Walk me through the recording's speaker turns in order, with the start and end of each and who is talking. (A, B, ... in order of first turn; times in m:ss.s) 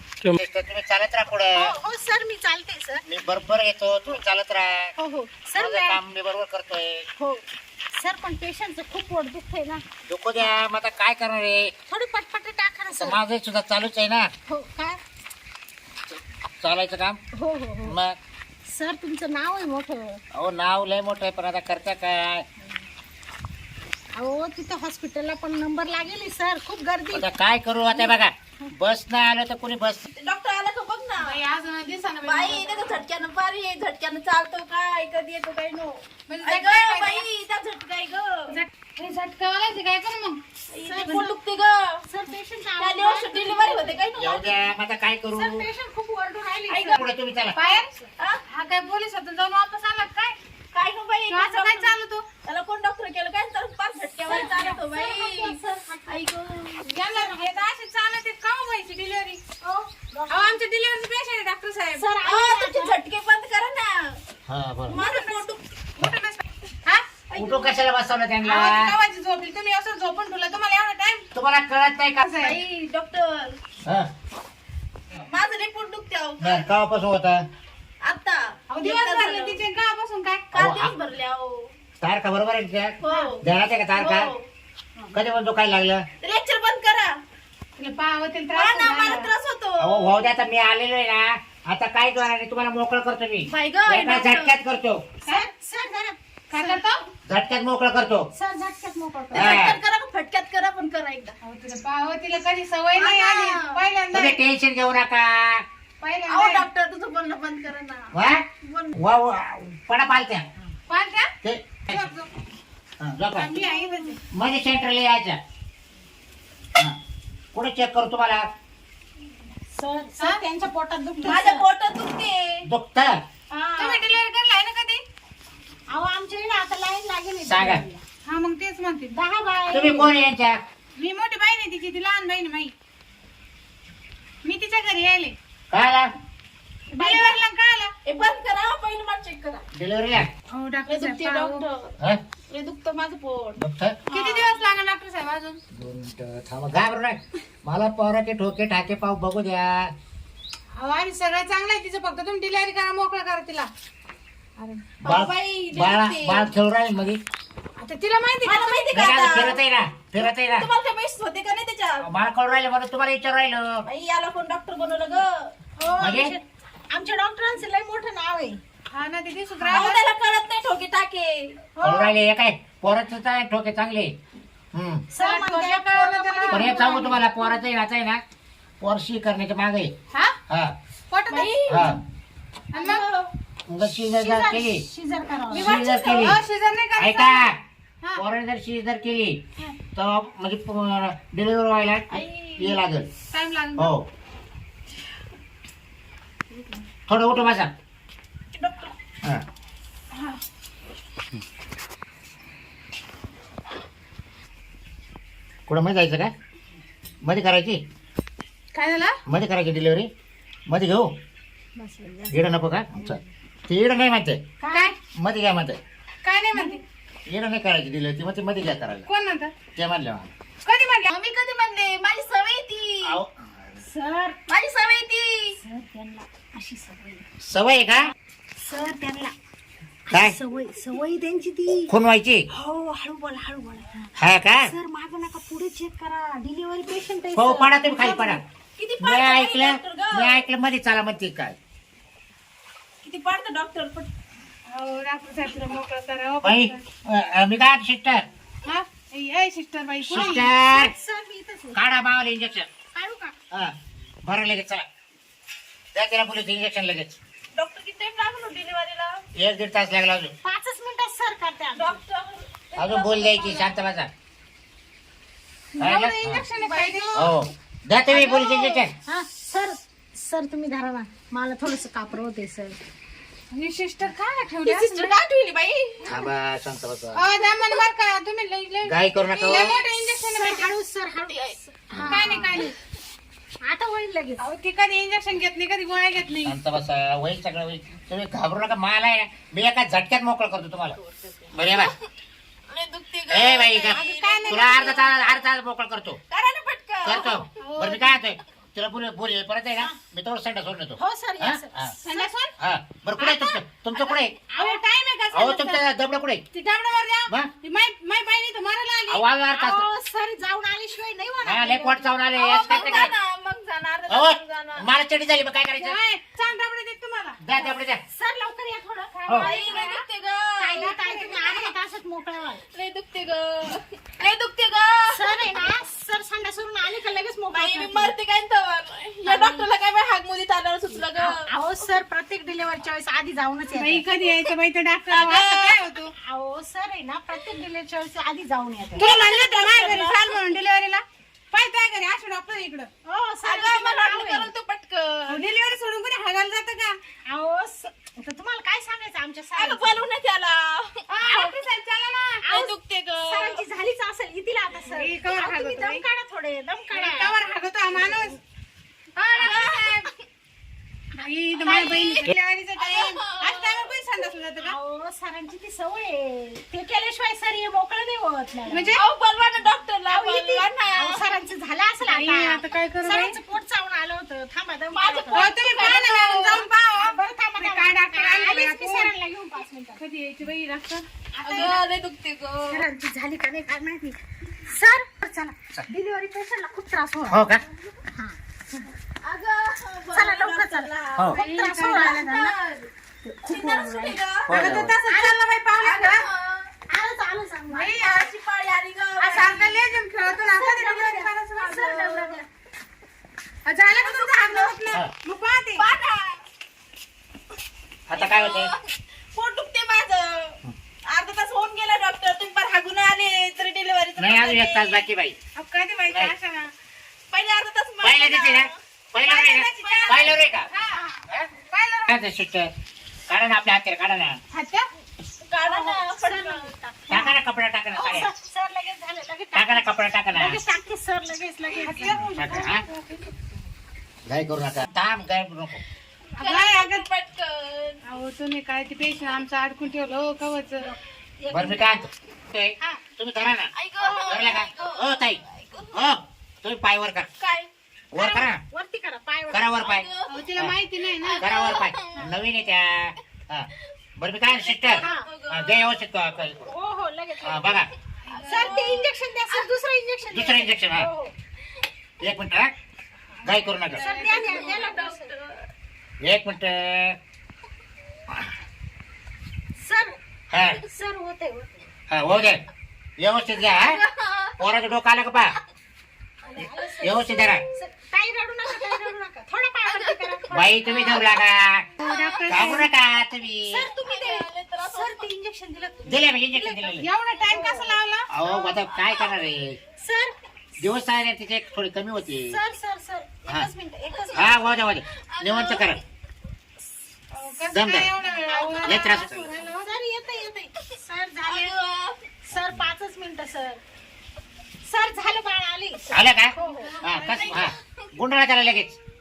0:00.2-0:01.8 A
0:01.5-0:03.0 B
0:03.1-0:04.9 A
0:05.0-0:06.0 B
0:05.6-0:07.1 A
0:07.2-0:09.8 B
0:10.1-0:11.7 A
0:11.9-0:13.2 B
0:12.9-0:14.3 A
0:14.5-0:15.0 B
0:16.6-0:17.2 A
0:17.4-0:18.0 B
0:17.8-0:18.2 A
0:18.7-0:20.2 B
0:20.3-0:22.5 A
0:24.1-0:27.3 B
0:27.1-0:30.0 A
0:27.9-0:28.7 B
0:30.2-0:31.4 C
0:31.2-0:32.9 D
0:32.2-0:38.6 C
0:36.3-0:37.2 D
0:38.5-0:40.4 D
0:40.7-0:42.0 C
0:40.8-0:41.4 B
0:42.1-0:44.0 B
0:42.8-0:44.7 C
0:44.2-0:45.7 A
0:45.3-0:47.0 B
0:46.7-0:47.0 C
0:46.9-0:47.6 A
0:47.6-0:47.9 D
0:48.5-0:50.4 D
0:50.7-0:56.9 C
0:51.3-0:52.3 D
0:54.3-0:56.2 B
0:56.9-0:59.4 D
0:59.6-1:00.6 B
1:00.3-1:02.1 D
1:02.0-1:03.0 B
1:02.2-1:04.2 C
1:04.5-1:05.0 A
1:04.9-1:05.6 C
1:04.9-1:05.4 D
1:06.0-1:07.1 D
1:07.3-1:07.8 C
1:07.4-1:08.9 A
1:08.4-1:11.3 D
1:11.4-1:12.3 A
1:12.2-1:12.6 D
1:12.4-1:13.6 C
1:15.2-1:16.7 C
1:16.4-1:17.5 A
1:18.0-1:19.6 C
1:18.7-1:20.5 D
1:20.5-1:21.7 C
1:20.6-1:20.9 A
1:22.0-1:24.3 A
1:23.0-1:24.5 C
1:25.1-1:26.1 A
1:26.2-1:27.1 C
1:27.8-1:29.3 D
1:28.5-1:30.3 C
1:29.8-1:35.0 A
1:33.5-1:34.6 C
1:35.2-1:36.8 B
1:36.5-1:37.0 D
1:37.3-1:38.3 A
1:38.3-1:39.6 B
1:39.3-1:41.4 C
1:39.3-1:39.8 A
1:41.4-1:44.4 D
1:42.9-1:43.8 C
1:44.1-1:45.6 A
1:46.0-1:46.7 D
1:46.3-1:49.0 C
1:48.1-1:48.4 A
1:49.0-1:50.5 A
1:50.9-1:51.3 D
1:51.4-1:52.1 A
1:51.9-1:52.3 D
1:53.0-1:53.6 A
1:53.3-1:54.2 D
1:54.3-1:55.4 A
1:57.5-1:58.4 A
1:59.7-2:01.7 B
2:01.2-2:02.6 C
2:02.6-2:03.2 A
2:03.6-2:03.9 C
2:03.8-2:05.0 D
2:05.9-2:08.0 B
2:07.4-2:07.8 A
2:08.2-2:09.1 D
2:09.1-2:10.1 B
2:09.7-2:10.6 A
2:11.0-2:12.7 D
2:14.4-2:15.4 D
2:15.7-2:16.1 A
2:16.9-2:17.9 D
2:17.0-2:17.3 B
2:17.0-2:17.4 C
2:18.0-2:19.6 C
2:19.7-2:20.3 A
2:20.5-2:21.7 D
2:20.9-2:22.0 C
2:22.5-2:24.6 C
2:23.6-2:24.0 A
2:24.1-2:25.6 D
2:25.7-2:29.9 A
2:30.8-2:33.7 D
2:34.6-2:34.9 D
2:35.0-2:36.5 C
2:35.0-2:37.2 A
2:37.8-2:39.5 D
2:38.4-2:39.6 C
2:38.9-2:40.7 A
2:40.2-2:42.1 C
2:42.0-2:43.8 A
2:43.8-2:45.5 C
2:45.8-2:48.6 B
2:46.0-2:46.4 A
2:48.9-2:50.0 D
2:49.6-2:51.6 C
2:51.8-2:52.2 B
2:51.8-2:54.1 A
2:54.7-2:55.1 A
2:55.1-2:57.2 B
2:55.2-2:57.1 D
2:56.5-2:58.2 A
2:58.8-2:59.9 A
3:00.5-3:00.8 A
3:01.1-3:01.7 D
3:01.3-3:02.0 C
3:01.7-3:02.0 A
3:02.7-3:03.0 D
3:02.7-3:03.3 C
3:03.7-3:04.8 A
3:04.2-3:05.8 B
3:05.5-3:07.5 D
3:05.6-3:06.4 A
3:07.0-3:07.6 A
3:08.2-3:09.4 A
3:10.0-3:13.1 A
3:12.1-3:12.8 C
3:13.3-3:13.9 D
3:13.8-3:14.1 A
3:17.1-3:17.7 A
3:18.5-3:18.9 C
3:20.1-3:20.4 D
3:25.7-3:26.3 A
3:27.2-3:27.8 A
3:28.7-3:29.2 D
3:29.3-3:30.1 A
3:30.7-3:31.1 A
3:31.8-3:33.2 B
3:32.3-3:34.4 A
3:34.6-3:35.0 B
3:35.1-3:35.8 A
3:36.2-3:36.8 D
3:37.3-3:39.1 A
3:39.1-3:39.6 D
3:39.8-3:40.3 A
3:40.6-3:41.1 D
3:41.1-3:43.2 C
3:43.0-3:43.4 A
3:43.8-3:44.4 B
3:44.5-3:45.6 C
3:45.6-3:47.2 B
3:47.4-3:48.1 A
3:48.6-3:49.3 B
3:50.1-3:51.9 B
3:50.1-3:50.4 A
3:51.9-3:52.4 A
3:52.5-3:54.1 B
3:54.2-3:54.7 A
3:54.6-3:58.4 B
3:57.3-3:58.4 A
3:58.8-4:00.5 C
3:59.0-4:01.6 A
4:03.0-4:04.1 C
4:04.7-4:06.8 D
4:06.4-4:08.3 A
4:08.6-4:10.5 D
4:10.1-4:10.9 A
4:10.1-4:11.8 B
4:11.7-4:12.7 A
4:12.9-4:13.4 B
4:13.5-4:14.9 A
4:15.9-4:17.2 A
4:17.6-4:19.2 C
4:19.4-4:20.3 A
4:20.4-4:22.0 B
4:21.8-4:23.9 C
4:22.8-4:24.1 A
4:25.8-4:26.5 A
4:25.8-4:27.3 D
4:26.6-4:27.3 B
4:27.1-4:28.9 A
4:28.4-4:28.8 C
4:29.0-4:32.8 B
4:33.5-4:35.1 D
4:34.6-4:36.2 C
4:36.0-4:37.2 A
4:37.2-4:40.7 D
4:38.8-4:39.7 A
4:39.2-4:39.8 C
4:39.8-4:42.7 B
4:41.3-4:41.6 C
4:41.9-4:42.2 A
4:42.0-4:42.7 D
4:43.6-4:44.5 B
4:44.4-4:46.6 D
4:46.5-4:51.0 A
4:51.2-4:51.9 C
4:51.5-4:51.9 A
4:52.7-4:55.5 C
4:53.3-4:56.2 A
4:53.9-4:54.9 D
4:56.3-4:57.5 C
4:57.0-5:01.9 A
4:57.6-4:58.2 D
5:01.0-5:02.3 B
5:02.0-5:02.5 D
5:02.6-5:04.4 A
5:03.2-5:03.6 D
5:04.5-5:04.8 B
5:04.6-5:05.8 D
5:05.3-5:06.5 A
5:06.5-5:09.2 D
5:09.1-5:09.9 A
5:09.5-5:12.1 B
5:11.4-5:13.1 A
5:12.4-5:14.9 C
5:12.7-5:13.1 B
5:14.1-5:16.0 A
5:15.8-5:17.4 D
5:17.4-5:18.0 A
5:17.5-5:20.0 B
5:19.2-5:20.0 D
5:19.4-5:20.9 C
5:20.6-5:22.6 B
5:20.8-5:21.6 D
5:22.7-5:25.7 C
5:25.1-5:28.1 B
5:27.5-5:31.4 C
5:29.2-5:29.7 B
5:31.2-5:34.1 B
5:33.8-5:36.1 D
5:35.1-5:36.0 C
5:36.2-5:39.1 B
5:39.0-5:40.3 C
5:39.0-5:42.9 D
5:43.0-5:44.5 B
5:43.4-5:45.5 C
5:45.3-5:47.0 D
5:47.3-5:50.0 B
5:49.6-5:51.4 C
5:51.1-5:52.4 D
5:51.2-5:51.5 B
5:52.4-5:57.4 B
5:52.5-5:53.6 C
5:54.9-5:56.0 D
5:56.9-5:58.4 D
5:57.9-5:58.4 B
5:59.2-6:00.1 D
5:59.4-6:00.2 C
6:01.2-6:04.8 D
6:01.6-6:03.9 C
6:04.6-6:09.0 B
6:08.7-6:09.0 D
6:09.0-6:11.4 C
6:10.1-6:20.0 B
6:12.0-6:13.4 D
6:14.9-6:16.6 C
6:15.3-6:19.1 D
6:20.0-6:21.7 D
6:21.3-6:21.8 B
6:21.5-6:22.8 C
6:22.7-6:27.4 B
6:27.3-6:27.6 A
6:28.1-6:28.9 B
6:29.2-6:31.4 C
6:30.1-6:32.6 B
6:31.3-6:32.1 D
6:31.9-6:32.9 C
6:33.2-6:35.4 B
6:33.4-6:34.5 C
6:34.5-6:35.0 A
6:34.5-6:36.3 D
6:35.8-6:36.7 C
6:36.9-6:38.0 B
6:37.7-6:38.3 D
6:38.0-6:39.8 C
6:39.2-6:41.8 D
6:40.3-6:42.4 B
6:41.6-6:42.4 C
6:43.6-6:45.8 D
6:43.9-6:45.0 C
6:45.8-6:46.4 C
6:48.1-6:48.7 A
6:48.2-6:48.8 C
6:49.3-6:55.1 C
6:54.2-6:55.4 A
6:55.6-6:56.7 D
6:57.3-6:58.8 C
6:58.0-7:00.7 A
6:59.2-7:01.0 D
6:59.8-7:00.4 C
7:00.9-7:01.2 B
7:01.7-7:02.2 D
7:02.1-7:02.7 A
7:03.3-7:04.4 A
7:04.5-7:04.9 D
7:05.4-7:06.7 C
7:05.6-7:07.4 B
7:07.1-7:08.3 A
7:08.0-7:12.2 B
7:09.5-7:10.6 A
7:11.8-7:13.4 D
7:12.4-7:12.8 A
7:14.3-7:15.8 A
7:16.4-7:17.1 D
7:16.4-7:18.0 C
7:18.0-7:20.9 D
7:21.4-7:22.1 B
7:21.5-7:23.7 A
7:23.8-7:26.0 C
7:24.0-7:24.9 B
7:24.3-7:25.4 A
7:25.9-7:27.3 A
7:27.4-7:28.5 C
7:28.1-7:28.6 A
7:28.7-7:29.7 B
7:29.5-7:30.8 A
7:29.8-7:30.4 C
7:30.3-7:31.4 D
7:31.0-7:32.3 C
7:31.4-7:36.7 A
7:34.4-7:35.8 C
7:35.0-7:35.3 B
7:36.7-7:37.8 B
7:37.4-7:37.9 A
7:38.3-7:39.1 C
7:38.3-7:38.8 D
7:38.4-7:41.3 B
7:40.3-7:41.1 A
7:42.2-7:42.7 A
7:43.4-7:44.1 A
7:43.9-7:45.3 B
7:43.9-7:44.9 D
7:44.1-7:45.7 C
7:46.2-7:47.2 A
7:49.8-7:50.2 B
7:50.5-7:50.8 A
7:50.8-7:51.9 B
7:52.1-7:52.6 A
7:53.2-7:54.0 A
7:53.6-7:54.6 C
7:54.6-7:55.6 A
7:56.4-8:01.1 B
7:57.0-7:57.6 A
7:59.9-8:01.4 C
8:00.5-8:01.9 A
8:02.0-8:02.6 C
8:02.0-8:02.9 D
8:02.5-8:03.9 A
8:03.7-8:08.0 B
8:03.9-8:05.3 C
8:06.0-8:07.1 A
8:07.0-8:08.3 D
8:08.3-8:09.8 A
8:08.6-8:09.3 C
8:10.0-8:10.4 B
8:10.8-8:12.6 A
8:12.5-8:14.7 B
8:14.3-8:16.0 A
8:15.3-8:16.0 C
8:17.3-8:19.1 D
8:17.7-8:18.2 A
8:18.2-8:21.7 B
8:18.8-8:19.5 A
8:21.4-8:22.2 C
8:22.4-8:23.8 B
8:24.8-8:27.0 B
8:26.1-8:29.0 A
8:26.9-8:27.6 D
8:27.2-8:28.0 C